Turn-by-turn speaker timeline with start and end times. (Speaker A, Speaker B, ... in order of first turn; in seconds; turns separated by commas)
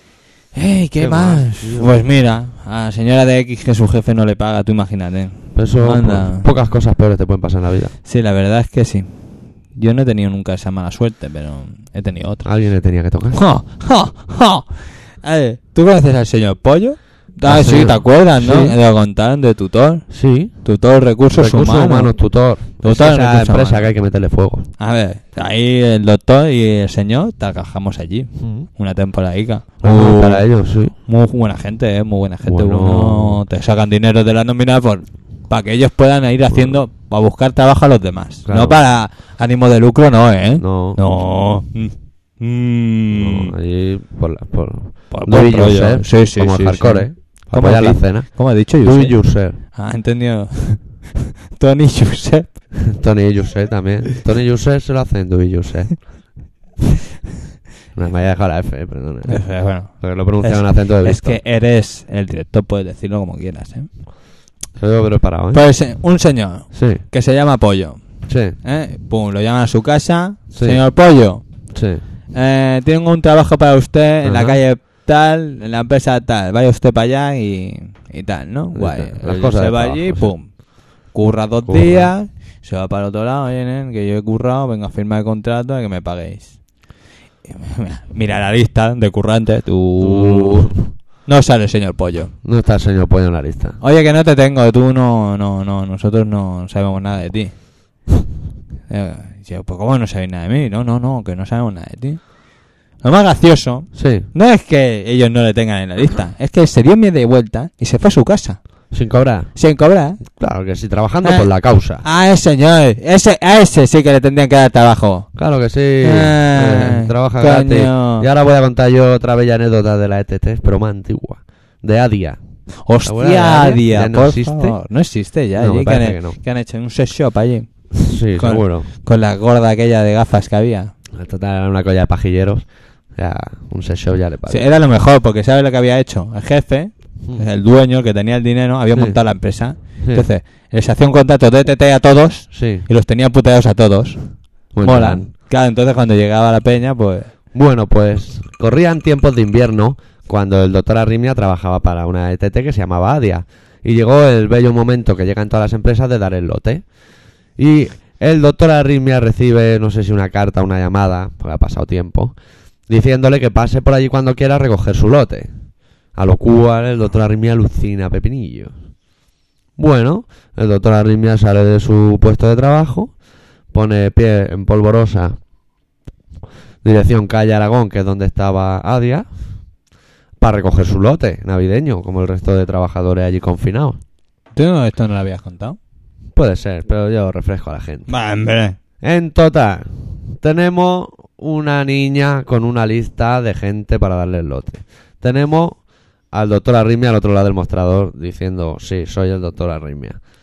Speaker A: 0.5-6.5, Speaker B: 1.0-1.9, Speaker B: 5.5-7.9, Speaker A: 8.0-12.5, Speaker B: 12.4-13.4, Speaker A: 13.3-22.1, Speaker B: 17.4-18.8, Speaker B: 20.1-20.5, Speaker B: 21.3-24.7, Speaker A: 22.8-23.9, Speaker A: 24.8-43.5, Speaker B: 28.4-28.7, Speaker B: 29.8-30.9, Speaker B: 32.5-33.4, Speaker B: 36.5-36.8, Speaker B: 38.5-38.8, Speaker B: 40.6-41.0, Speaker B: 43.1-49.6, Speaker A: 45.1-52.8, Speaker B: 52.9-56.1, Speaker B: 57.9-61.4, Speaker A: 59.3-63.9, Speaker B: 64.8-65.6, Speaker A: 65.5-68.0, Speaker B: 66.7-67.0, Speaker B: 68.3-68.5, Speaker A: 68.6-71.4, Speaker B: 70.5-70.8, Speaker B: 71.7-72.0, Speaker A: 72.3-86.6, Speaker B: 74.2-74.6, Speaker B: 78.7-80.3, Speaker B: 81.7-82.1, Speaker A: 87.5-92.3, Speaker B: 90.0-90.8, Speaker B: 92.4-93.8, Speaker A: 93.8-97.5, Speaker A: 98.9-102.4, Speaker A: 103.0-108.6, Speaker B: 103.9-104.3, Speaker B: 108.9-109.5, Speaker A: 109.5-110.3, Speaker B: 110.3-112.0, Speaker A: 111.2-111.5, Speaker A: 112.0-115.3, Speaker B: 115.4-122.4, Speaker A: 116.0-118.3, Speaker A: 122.8-130.9, Speaker B: 123.0-124.8, Speaker B: 125.5-126.4, Speaker B: 127.9-128.9, Speaker B: 131.1-134.7, Speaker A: 134.5-144.2, Speaker B: 142.5-142.8, Speaker B: 144.7-145.3, Speaker A: 144.8-147.3, Speaker B: 147.5-156.8, Speaker B: 157.6-162.3, Speaker B: 162.9-165.5, Speaker B: 166.1-168.8, Speaker B: 169.8-173.1, Speaker B: 173.7-175.4, Speaker B: 176.8-179.3, Speaker B: 180.4-184.0, Speaker A: 184.5-185.8, Speaker B: 186.3-188.1, Speaker A: 188.1-188.8, Speaker B: 189.0-200.2